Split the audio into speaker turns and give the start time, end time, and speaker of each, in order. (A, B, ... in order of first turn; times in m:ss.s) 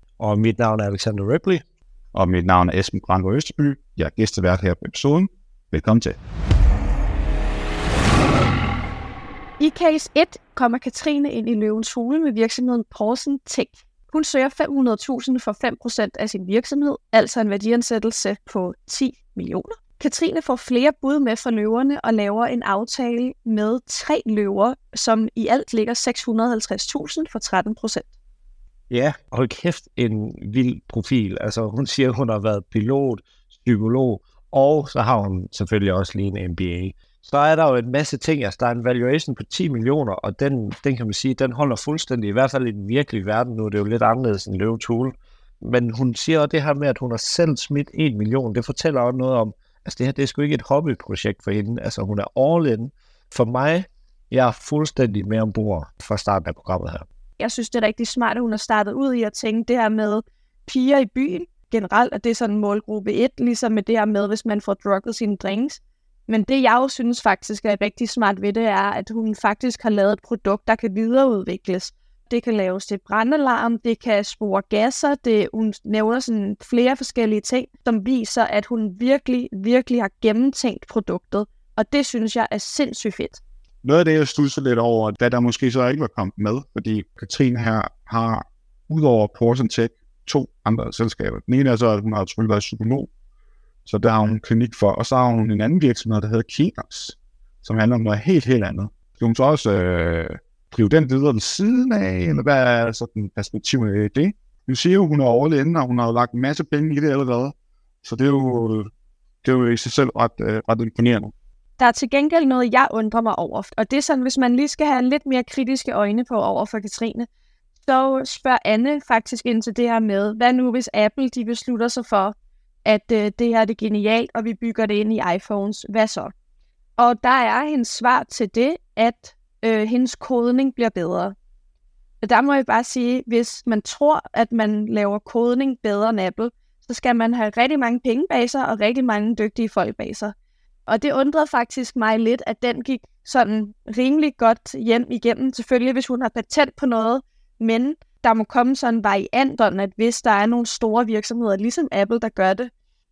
0:00.2-0:01.6 A
0:02.1-0:06.2 B
0:09.6-0:28.1 C
0:28.9-0:57.0 A
0:57.4-1:23.4 C
1:23.8-1:33.1 B
1:33.8-1:48.9 B
1:49.4-1:51.3 B
1:51.8-1:57.3 C
1:57.9-2:06.3 C
2:07.0-2:11.3 C
2:12.2-2:20.3 C
2:20.9-2:32.7 C